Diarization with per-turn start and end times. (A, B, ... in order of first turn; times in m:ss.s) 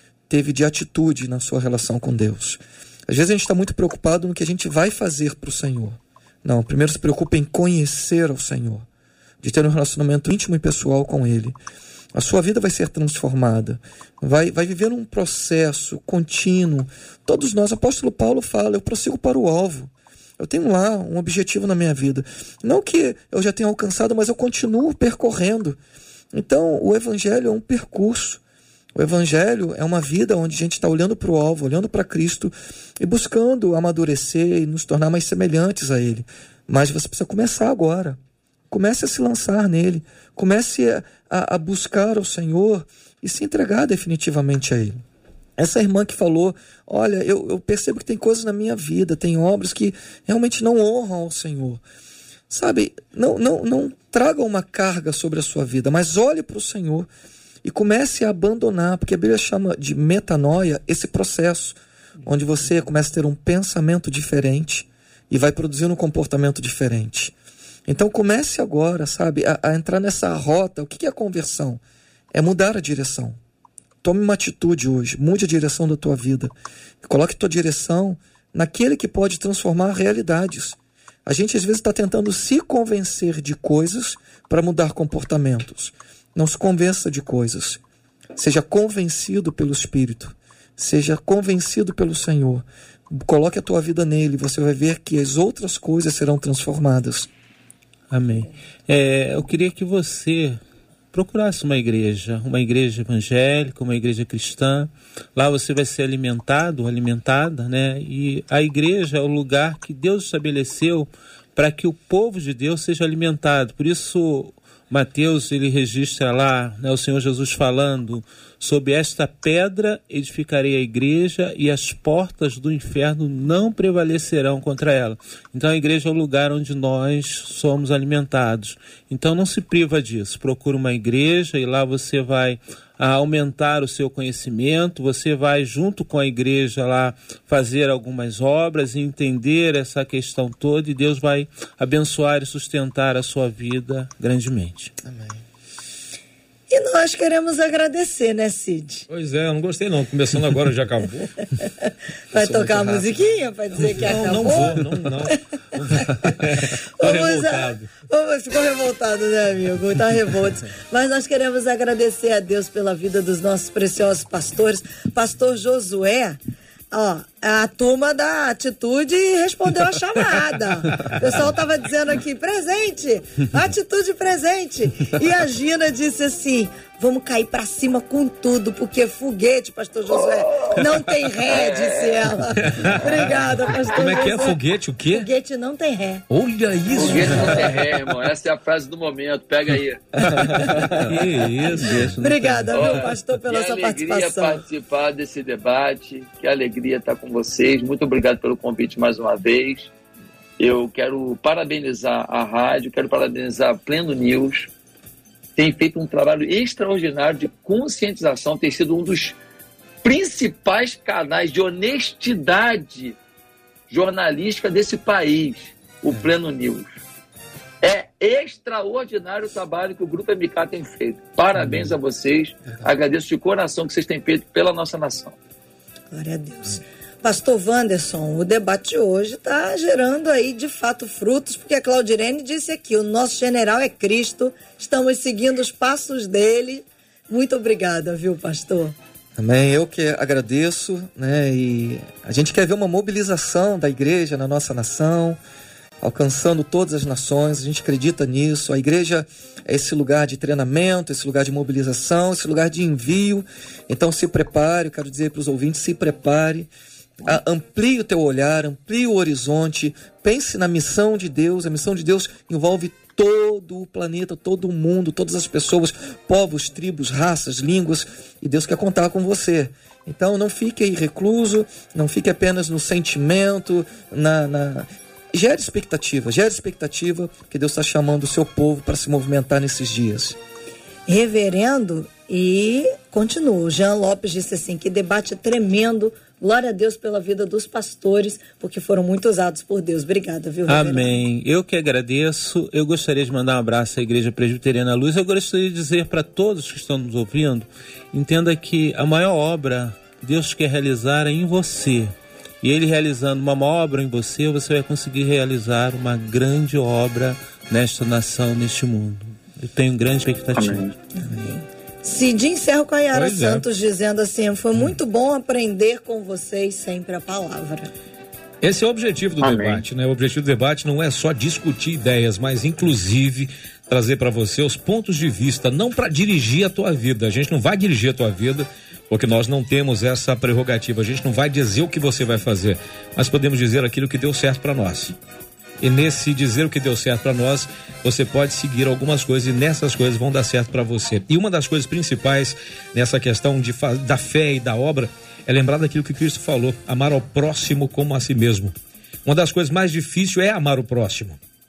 0:00.3-0:08.9 A
0:09.4-0:11.6 A
0:12.1-0:25.8 A
0:26.3-0:28.4 A
0:29.0-0:38.2 A
0:38.7-0:45.0 A
0:45.6-0:51.8 A
0:52.5-0:57.1 A
0:57.6-1:07.3 A
1:07.9-1:11.8 A
1:12.3-1:13.4 A
1:14.0-1:27.8 A
1:28.3-1:37.3 A
1:38.1-1:40.6 B
1:41.1-2:24.9 B
2:25.0-2:25.4 A
2:26.7-2:29.1 C
2:29.1-2:31.3 D
2:31.6-2:46.4 C
2:32.4-2:33.1 D
2:33.8-2:37.9 D
2:34.1-2:34.8 B
2:46.9-3:04.6 C
3:00.2-3:02.4 E
3:02.5-3:03.4 D
3:03.9-3:05.3 D
3:05.1-3:06.2 C
3:06.3-3:07.9 D
3:06.9-3:10.2 E
3:07.0-3:07.4 C
3:10.2-3:11.2 A
3:11.0-3:13.1 B
3:12.2-3:14.6 C
3:12.7-3:19.9 E
3:20.6-3:24.7 E
3:25.6-3:29.4 E
3:30.0-3:33.2 E
3:33.9-3:37.0 E
3:37.8-3:45.4 E
3:46.1-3:59.0 C
3:59.4-4:05.4 A
4:06.0-4:16.7 A
4:17.2-4:40.4 A
4:41.1-4:51.2 C
4:50.7-5:10.9 B
5:10.6-5:10.9 E
5:11.2-5:17.9 C
5:13.1-5:13.6 D
5:18.6-5:35.1 D
5:19.4-5:19.8 E
5:35.8-5:48.7 D
5:49.2-5:51.4 D